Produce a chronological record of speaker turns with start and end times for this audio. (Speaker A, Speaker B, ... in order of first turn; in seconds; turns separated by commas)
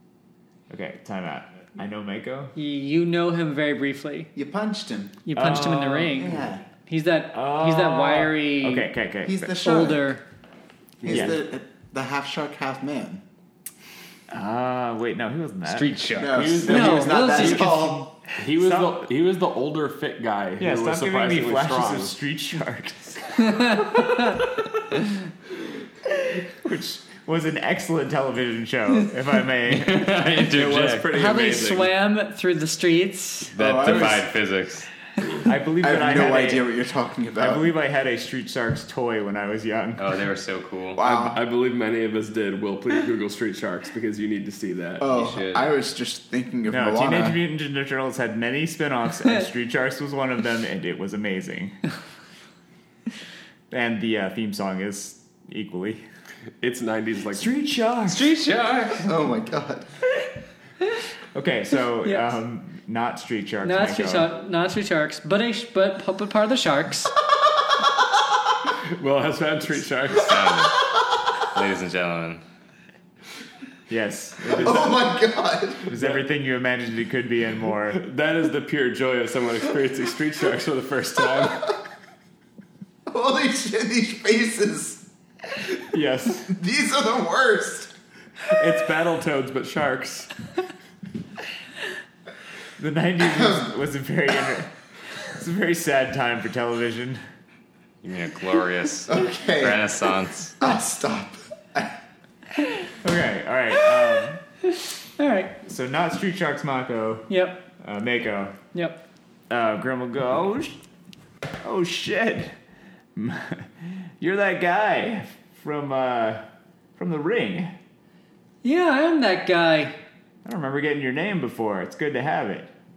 Speaker A: 0.7-2.5, Speaker B: 2.6-4.3, Speaker C: 4.3-5.2, Speaker B: 5.3-6.4, Speaker A: 5.3-6.4, Speaker C: 6.1-6.6, Speaker B: 6.9-8.9, Speaker A: 7.3-9.6, Speaker C: 9.2-10.1, Speaker B: 9.6-10.2, Speaker D: 11.0-11.3, Speaker C: 11.0-13.2, Speaker A: 11.1-11.4, Speaker A: 14.3-16.2, Speaker E: 15.7-16.6, Speaker C: 16.2-18.2, Speaker D: 16.3-17.7, Speaker B: 16.7-18.0, Speaker A: 17.4-17.8, Speaker D: 18.3-22.1, Speaker A: 18.4-19.1, Speaker A: 20.6-25.2, Speaker B: 23.4-24.4, Speaker A: 26.0-30.2, Speaker E: 29.7-31.1, Speaker D: 30.5-31.9, Speaker B: 31.1-33.6, Speaker C: 33.6-34.3, Speaker E: 33.6-34.9, Speaker A: 35.5-36.7, Speaker C: 35.8-37.6, Speaker A: 37.4-40.2, Speaker E: 40.0-41.0, Speaker C: 41.0-41.5, Speaker D: 41.0-45.0, Speaker C: 45.0-47.4, Speaker E: 45.1-45.8, Speaker A: 46.7-51.8, Speaker A: 53.7-56.0, Speaker D: 56.6-57.5, Speaker A: 57.3-58.3, Speaker E: 58.1-59.0, Speaker C: 59.0-59.9, Speaker A: 61.3-64.3, Speaker B: 62.0-62.3, Speaker B: 63.6-67.1, Speaker D: 68.8-70.3, Speaker E: 70.1-70.9, Speaker E: 71.5-72.4, Speaker A: 73.9-75.0, Speaker C: 74.6-75.9, Speaker A: 75.9-78.0, Speaker D: 77.9-81.8, Speaker C: 83.1-85.8, Speaker A: 85.9-86.6, Speaker C: 86.5-87.9, Speaker A: 88.5-90.3, Speaker A: 92.8-94.7, Speaker A: 95.2-97.2, Speaker E: 98.0-100.6, Speaker C: 99.1-99.9, Speaker C: 100.6-102.0, Speaker A: 103.0-104.4, Speaker B: 104.6-105.6, Speaker A: 105.7-108.6, Speaker B: 107.3-107.7, Speaker B: 108.7-109.0, Speaker A: 109.5-110.8, Speaker A: 111.6-112.5, Speaker A: 113.2-117.8, Speaker B: 118.6-120.0, Speaker A: 120.5-122.7